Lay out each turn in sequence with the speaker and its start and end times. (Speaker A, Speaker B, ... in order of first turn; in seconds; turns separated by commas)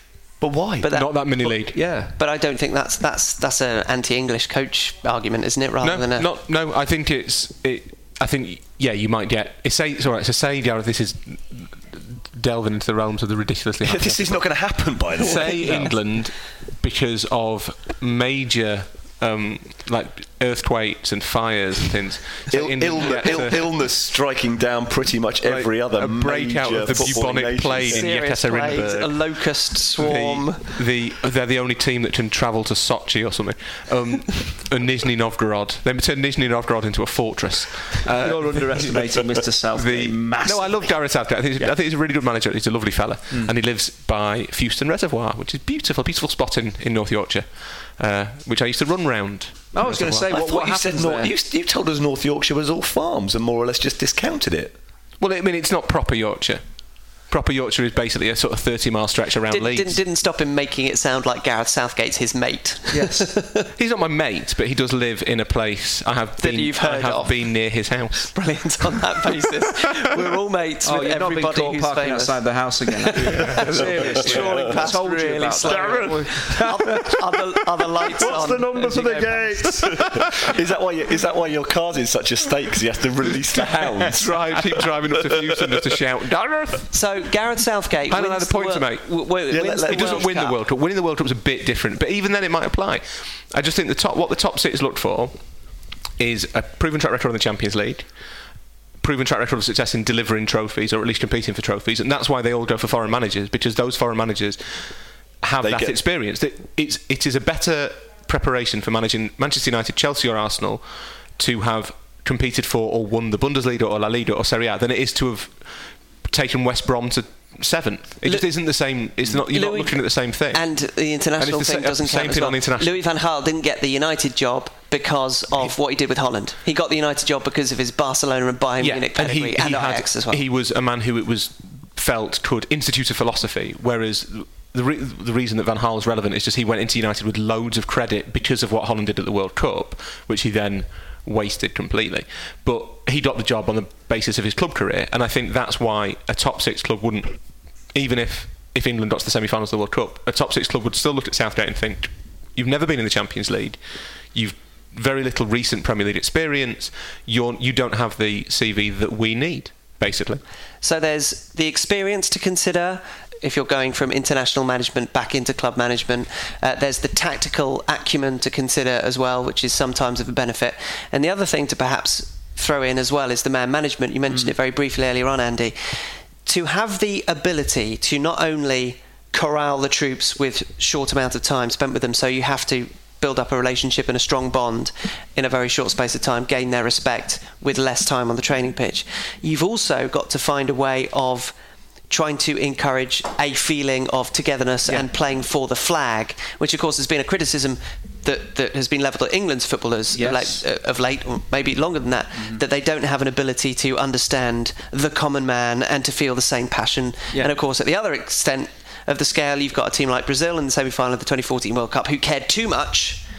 Speaker A: 0.4-0.9, Speaker B: 0.8-1.6, Speaker C: 0.9-1.8, Speaker D: 1.7-2.1, Speaker B: 2.2-6.3, Speaker C: 5.8-23.7, Speaker A: 13.8-15.9, Speaker A: 22.5-28.1, Speaker C: 25.4-39.0, Speaker B: 27.9-30.8, Speaker D: 38.0-41.0, Speaker C: 39.7-50.3, Speaker D: 49.7-51.3, Speaker A: 50.3-54.8, Speaker C: 55.2-56.6, Speaker C: 57.3-60.0, Speaker B: 59.5-63.7, Speaker D: 62.9-63.3, Speaker C: 63.8-69.0, Speaker B: 66.4-67.7, Speaker B: 68.2-72.4, Speaker D: 70.8-77.2, Speaker B: 73.0-79.9, Speaker A: 73.7-74.8, Speaker A: 75.7-76.1, Speaker A: 78.1-84.7, Speaker D: 78.9-79.4, Speaker C: 84.1-86.9, Speaker B: 86.9-90.6, Speaker C: 88.1-95.4, Speaker A: 89.5-90.3, Speaker C: 96.2-98.3, Speaker C: 99.0-120.6, Speaker A: 105.6-106.0, Speaker B: 119.3-130.4, Speaker C: 121.4-123.0, Speaker C: 128.8-153.8, Speaker C: 154.3-160.4, Speaker B: 160.8-191.5, Speaker B: 192.1-213.2, Speaker D: 200.1-200.6, Speaker D: 202.4-202.6